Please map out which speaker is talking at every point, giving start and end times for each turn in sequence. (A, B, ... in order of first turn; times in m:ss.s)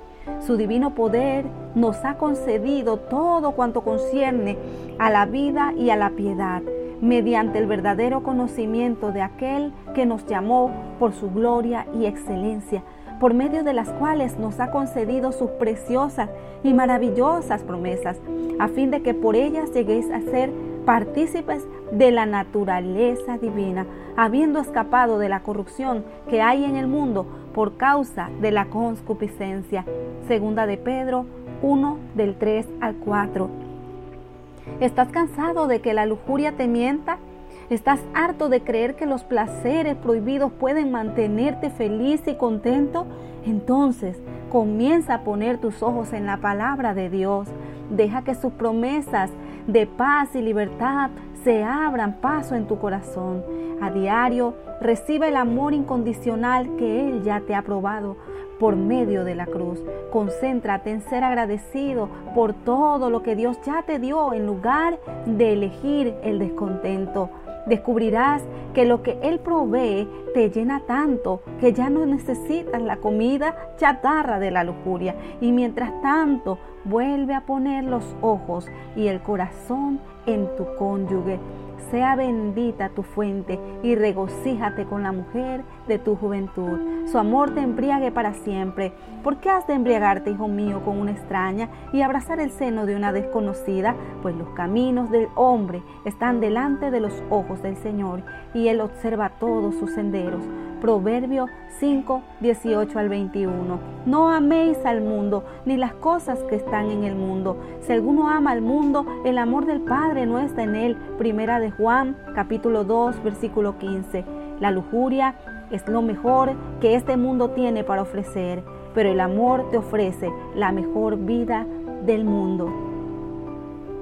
0:00.4-0:33.5 A
0:34.8-2:02.8 A